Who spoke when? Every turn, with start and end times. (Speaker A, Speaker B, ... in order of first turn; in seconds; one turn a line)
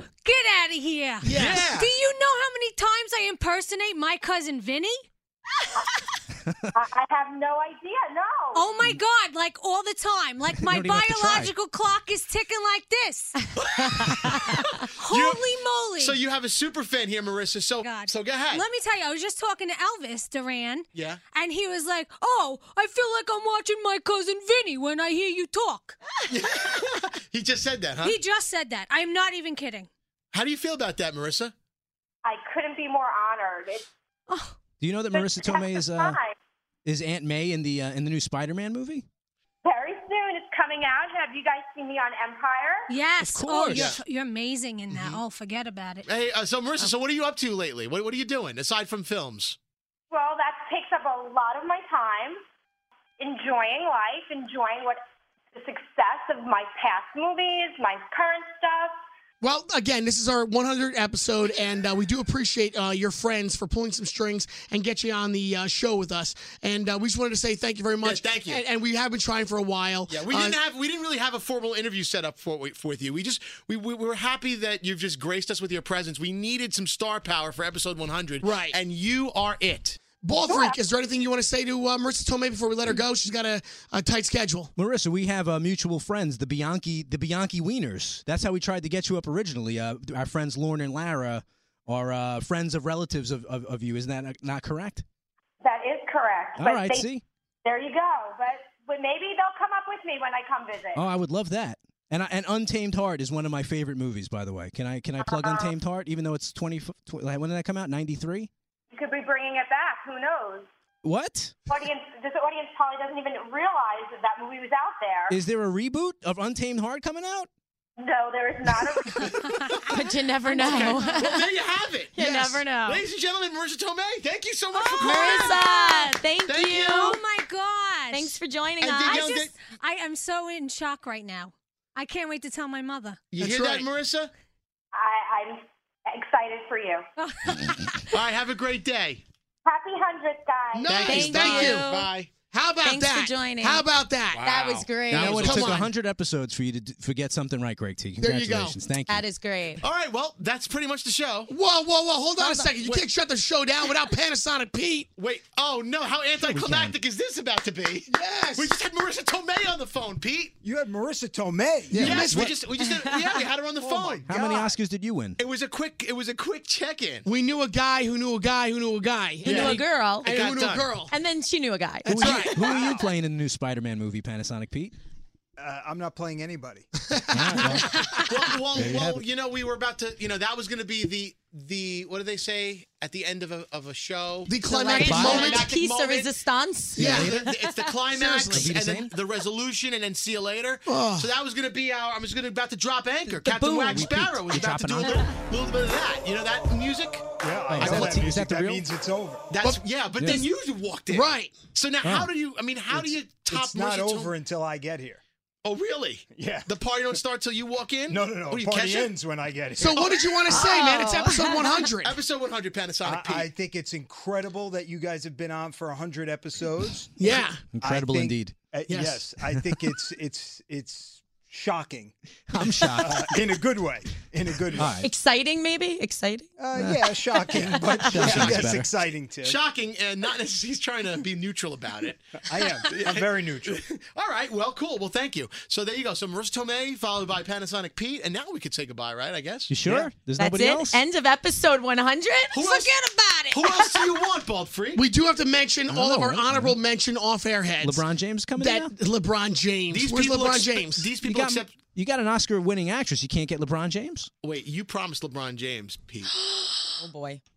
Speaker A: 0.2-5.0
Speaker B: 1.2-1.7
Speaker C: 1.2-1.9
Speaker D: 6.7-8.7
Speaker A: 8.5-13.4
Speaker E: 10.6-11.5
Speaker F: 13.9-14.3
Speaker A: 14.9-16.2
Speaker C: 15.1-15.4
Speaker C: 16.0-18.6
Speaker A: 17.8-26.0
Speaker C: 20.9-21.2
Speaker C: 26.3-28.2
Speaker A: 28.0-29.9
Speaker C: 30.3-31.5
Speaker D: 32.2-33.9
Speaker E: 34.8-36.2
Speaker D: 35.1-36.3
Speaker E: 36.8-39.0
Speaker D: 39.6-42.9
Speaker A: 42.9-46.1
Speaker E: 43.2-44.0
Speaker C: 43.7-44.0
Speaker C: 44.9-45.2
Speaker C: 46.0-49.6
Speaker D: 50.1-52.4
Speaker D: 53.2-55.0
Speaker D: 55.5-58.9
Speaker B: 59.4-70.6
Speaker C: 68.0-68.6
Speaker C: 70.1-80.0
Speaker B: 78.4-78.8
Speaker B: 80.2-84.7
Speaker D: 80.5-80.8
Speaker E: 84.8-95.0
Speaker D: 95.6-97.1
Speaker E: 96.5-97.2
Speaker D: 97.6-101.0
Speaker E: 100.9-108.5
Speaker D: 105.2-105.7
Speaker D: 108.9-110.7
Speaker E: 111.0-111.5
Speaker D: 111.7-115.4
Speaker E: 115.3-117.5
Speaker D: 118.0-119.4
Speaker C: 119.2-119.9
Speaker A: 119.2-121.2
Speaker F: 119.9-121.5
Speaker C: 120.6-122.2
Speaker F: 122.1-123.0
Speaker B: 122.2-122.6
Speaker C: 122.8-125.6
Speaker A: 124.7-126.2
Speaker F: 125.0-127.2
Speaker C: 126.5-127.2
Speaker A: 126.7-128.4
Speaker F: 128.1-129.3
Speaker C: 128.8-129.5
Speaker A: 129.0-133.2
Speaker C: 133.3-134.3
Speaker B: 133.4-133.9
Speaker D: 134.9-137.0
Speaker A: 137.2-138.0
Speaker C: 138.1-139.2
Speaker D: 139.7-140.9
Speaker C: 140.8-142.3
Speaker B: 140.8-141.9
Speaker F: 140.9-142.1
Speaker B: 142.5-144.6
Speaker F: 142.8-143.9
Speaker C: 144.3-145.9
Speaker F: 144.4-145.5
Speaker E: 145.1-149.2
Speaker B: 145.3-145.8
Speaker B: 148.2-148.8
Speaker F: 149.1-149.8
Speaker C: 149.8-151.5
Speaker B: 151.5-155.1
Speaker F: 152.4-152.7
Speaker C: 152.8-153.1
Speaker C: 155.2-160.5
Speaker E: 156.4-157.0
Speaker B: 158.1-158.8
Speaker G: 160.6-162.3
Speaker B: 161.9-162.6
Speaker C: 161.9-164.3
Speaker F: 162.8-163.4
Speaker G: 163.8-164.8
Speaker E: 164.2-165.4
Speaker C: 165.4-167.2
Speaker B: 167.2-171.1
Speaker C: 169.4-170.9
Speaker F: 169.5-170.3
Speaker F: 171.1-172.8
Speaker E: 172.0-174.9
Speaker B: 172.1-172.7
Speaker C: 172.7-172.9
Speaker G: 175.6-176.9
Speaker B: 177.1-178.2
Speaker E: 177.3-178.0
Speaker C: 178.2-186.3
Speaker E: 178.8-179.2
Speaker B: 184.5-185.7
Speaker F: 184.7-187.4
Speaker E: 185.0-185.4
Speaker E: 186.9-187.5
Speaker B: 187.0-187.3
Speaker C: 187.0-198.3
Speaker B: 188.1-188.7
Speaker E: 188.5-189.1
Speaker B: 190.9-191.3
Speaker E: 193.4-195.3
Speaker F: 193.5-194.0
Speaker G: 197.4-199.5
Speaker E: 197.7-198.9
Speaker C: 199.5-204.3
Speaker B: 199.6-200.4
Speaker E: 200.2-200.4
Speaker B: 201.1-201.6
Speaker E: 202.0-202.3
Speaker G: 202.9-205.2
Speaker C: 205.6-209.1
Speaker G: 206.3-206.7
Speaker G: 208.1-210.3
Speaker B: 209.8-212.2
Speaker F: 210.6-211.5
Speaker C: 212.0-213.5
Speaker G: 213.0-225.0
Speaker B: 217.2-217.6
Speaker E: 217.7-218.5
Speaker B: 218.9-219.2
Speaker E: 222.5-223.6
Speaker E: 224.8-225.1
Speaker F: 224.9-226.5
Speaker G: 226.6-229.6
Speaker E: 226.7-228.9
Speaker F: 227.4-228.3
Speaker C: 228.2-228.7
Speaker C: 229.4-239.7
Speaker G: 232.4-233.8
Speaker E: 239.7-241.0
Speaker G: 239.8-240.1
Speaker F: 240.4-242.8
Speaker C: 242.5-242.9
Speaker A: 242.6-243.9
Speaker C: 243.5-245.0
Speaker B: 244.9-248.0
Speaker E: 245.9-246.8
Speaker E: 247.8-248.9
Speaker B: 248.6-251.1
Speaker C: 249.9-251.7
Speaker E: 251.2-254.3
Speaker C: 254.4-256.3
Speaker F: 256.5-257.4